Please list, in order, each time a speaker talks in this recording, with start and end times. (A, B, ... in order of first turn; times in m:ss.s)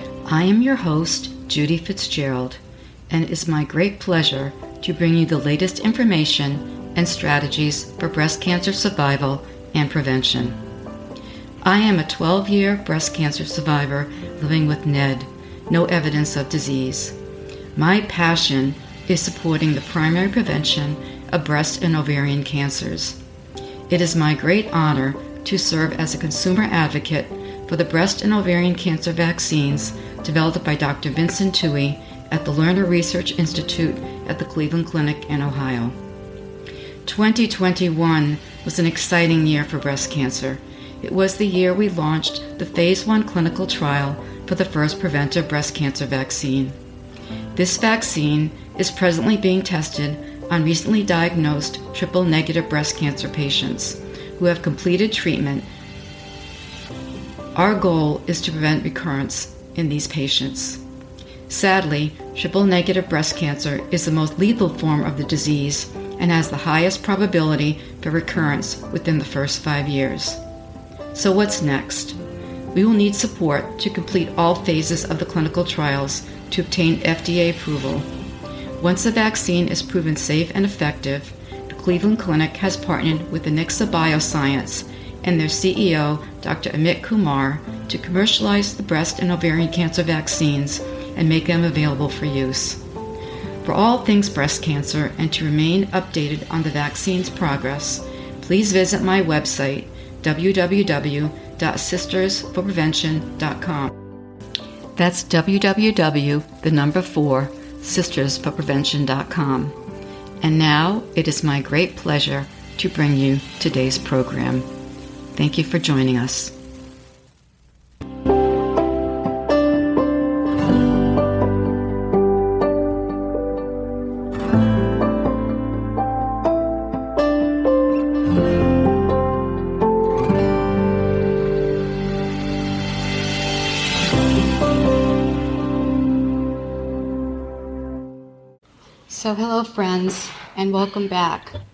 0:00.2-0:10.6 A
0:11.6-0:17.2 A
0:17.8-0:23.2 A
0:23.9-0:36.0 A
0:37.0-0:46.8 A
0:47.5-0:55.7 A
0:57.5-1:00.8 A
1:01.5-1:10.4 A
1:11.1-1:12.2 A
1:12.7-1:18.1 A
1:18.8-1:32.8 A
1:33.6-1:43.9 A
1:45.0-1:49.8 A
1:50.4-1:54.7 A
1:55.3-1:56.5 A
2:19.1-2:21.5 A